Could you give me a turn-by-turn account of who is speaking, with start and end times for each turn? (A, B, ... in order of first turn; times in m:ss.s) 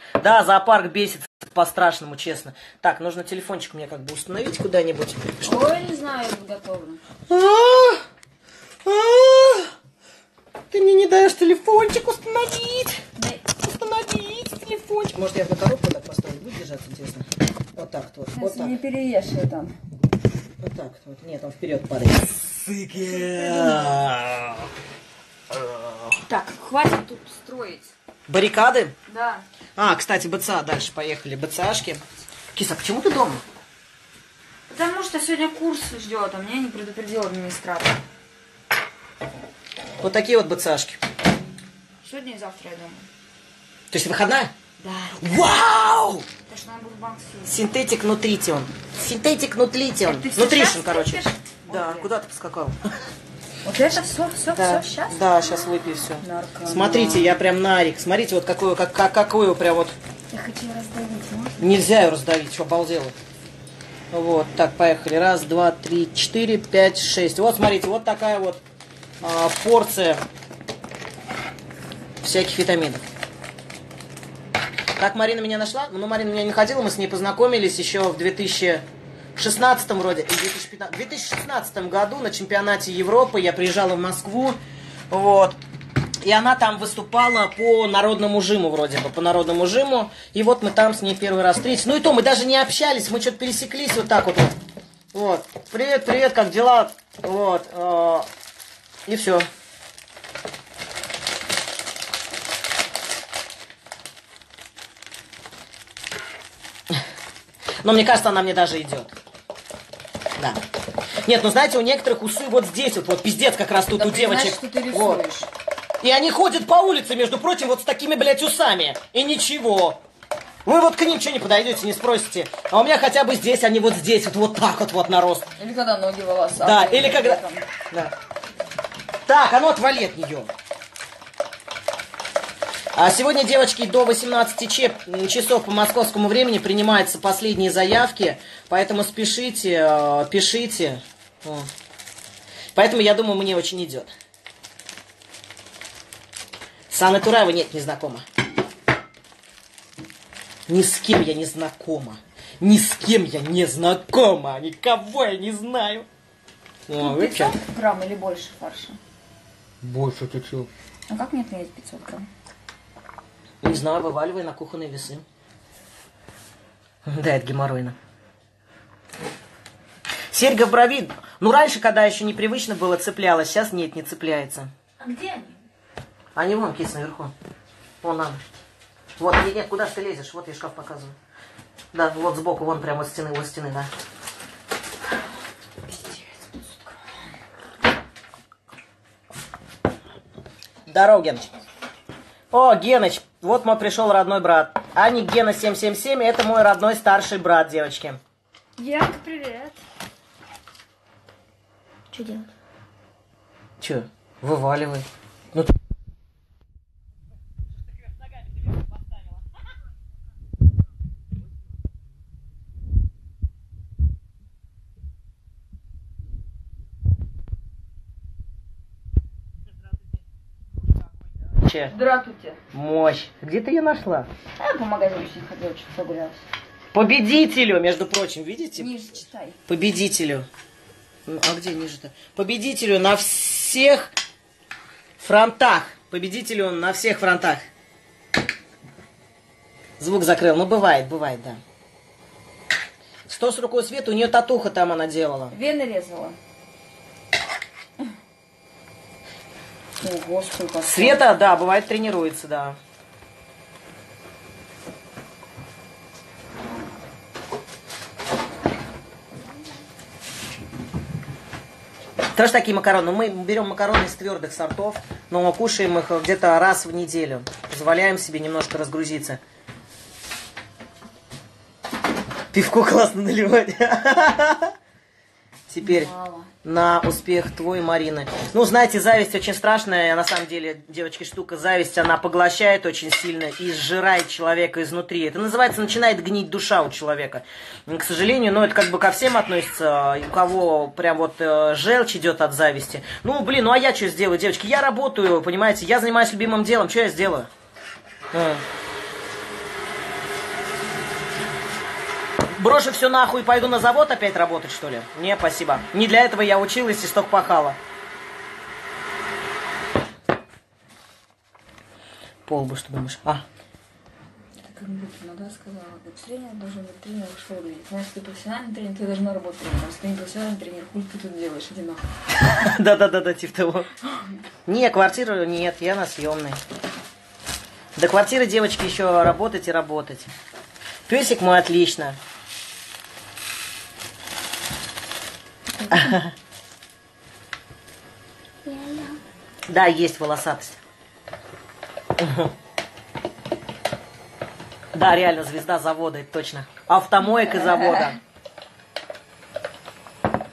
0:00.2-0:05.7 A
0:05.4-0:07.0 B
0:07.3-0:08.0 A
0:08.8-0:09.7 A
0:10.7-0:18.7 A
0:13.2-0:13.4 B
0:18.3-0:19.7 B
0:20.6-0:24.7 A
0:23.0-0:24.1 B
0:25.5-0:26.2 A
0:26.2-0:27.9 B
0:28.3-0:28.9 A
0:29.1-0:29.4 B
0:29.8-0:33.4 A
0:34.7-0:38.0 B
0:40.0-0:41.0 A
0:42.0-0:43.1 B
0:43.9-0:44.5 A
0:44.8-0:45.6 B
0:45.2-0:46.2 A
0:46.4-0:47.5 B
0:47.4-0:52.8 A
0:50.0-0:52.1 B
0:53.6-0:57.4 B
0:54.5-0:59.9 A
1:00.3-1:01.8 B
1:01.6-1:03.2 A
1:04.1-1:08.6 A
1:09.2-1:10.2 A
1:12.2-1:13.0 A
1:15.0-1:24.6 A
1:25.1-1:25.6 A
1:26.2-1:34.6 A
1:35.1-1:38.3 A
1:39.0-1:39.4 A
1:47.8-1:49.1 A
1:50.4-1:50.6 A
1:51.2-1:55.2 A
1:53.9-1:55.5 B
1:56.0-2:00.0 A
2:00.6-2:05.5 A
2:05.6-2:07.7 B
2:06.6-2:08.1 A
2:09.3-2:10.5 A
2:12.9-2:21.7 A
2:22.7-2:24.1 A
2:26.9-2:28.2 A
2:30.7-2:36.1 A
2:36.9-2:37.6 A
2:37.0-2:39.0 B
2:39.8-2:40.7 A
2:41.1-2:42.3 B
2:43.6-2:45.2 A
2:47.0-2:48.0 A
2:50.3-2:54.7 A
2:55.0-2:55.6 B
2:56.3-2:57.3 A
2:58.0-2:58.4 A
2:59.2-3:01.2 A
3:01.9-3:03.9 A
3:05.9-3:06.6 B
3:10.9-3:11.5 A
3:12.5-3:18.2 A
3:18.8-3:19.8 B
3:22.1-3:22.5 B
3:23.8-3:25.7 A
3:41.5-3:41.9 A
3:41.9-3:42.6 B
3:42.7-3:44.3 A
3:44.6-3:46.4 B
3:46.9-3:48.9 A
3:48.8-3:49.6 B
3:49.7-3:50.5 A
3:51.2-3:54.1 A
3:55.2-3:57.6 A
4:00.0-4:01.6 A
4:03.3-4:05.5 A
4:05.5-4:06.4 B
4:10.0-4:11.2 B
4:10.8-4:12.8 A
4:22.3-4:29.4 A
4:32.5-4:34.7 A
4:35.7-4:36.1 A
4:35.8-4:36.5 B
4:36.6-4:57.5 A
4:58.3-4:58.6 A
5:02.6-5:07.8 A
5:12.4-5:13.4 A
5:14.6-5:22.0 B
5:22.5-5:23.9 A
5:24.1-5:24.4 B
5:24.6-5:26.6 A
5:28.0-5:30.3 A
5:31.1-5:32.2 A
5:35.8-5:36.2 B
5:35.9-5:36.3 A
5:38.6-5:39.2 B
5:39.7-5:40.8 A
5:42.2-5:42.5 A
5:44.9-5:48.2 A
5:47.3-5:48.1 B